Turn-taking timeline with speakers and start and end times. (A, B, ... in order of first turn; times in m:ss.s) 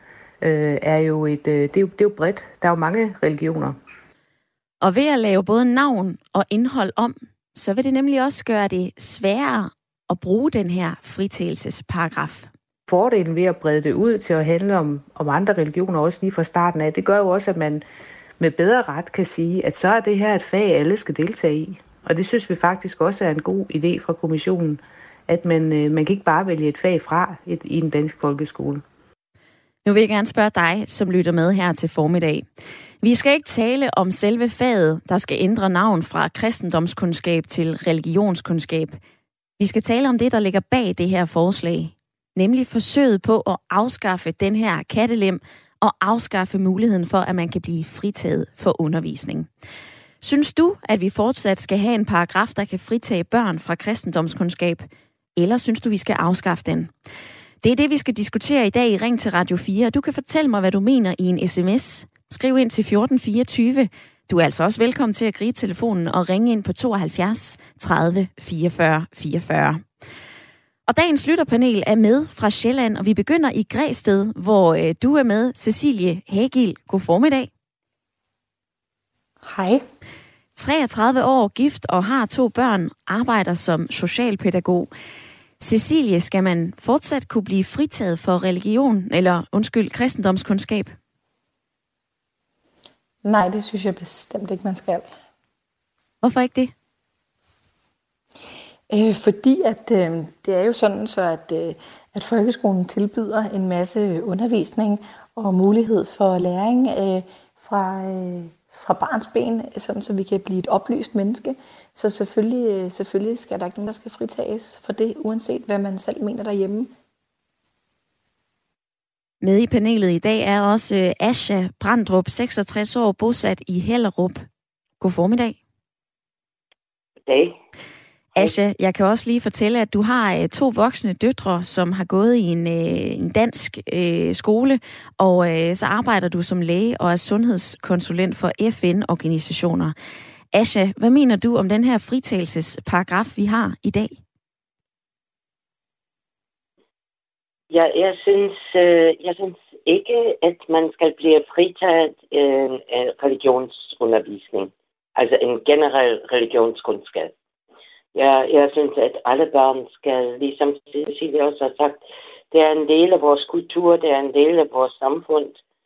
0:00.4-0:03.8 A
0:04.8-0:12.5 B
0:12.9-0:17.8 A
0:18.4-0:28.8 A
0:29.8-0:32.4 B
0:33.0-0:39.0 B
0:39.6-0:49.5 B
0:50.2-0:56.9 B
0:57.6-1:09.8 B
1:10.9-1:17.5 B
1:19.4-1:19.8 C
1:20.6-1:24.9 B
1:25.6-1:30.9 B
1:33.2-1:35.1 C
1:36.2-1:36.7 B
1:38.9-1:56.9 C
1:59.4-2:04.4 B
2:05.0-2:05.6 B
2:07.2-2:07.5 D
2:08.4-2:19.9 B
2:20.5-2:24.2 B
2:27.7-2:37.3 D
2:38.1-2:45.6 D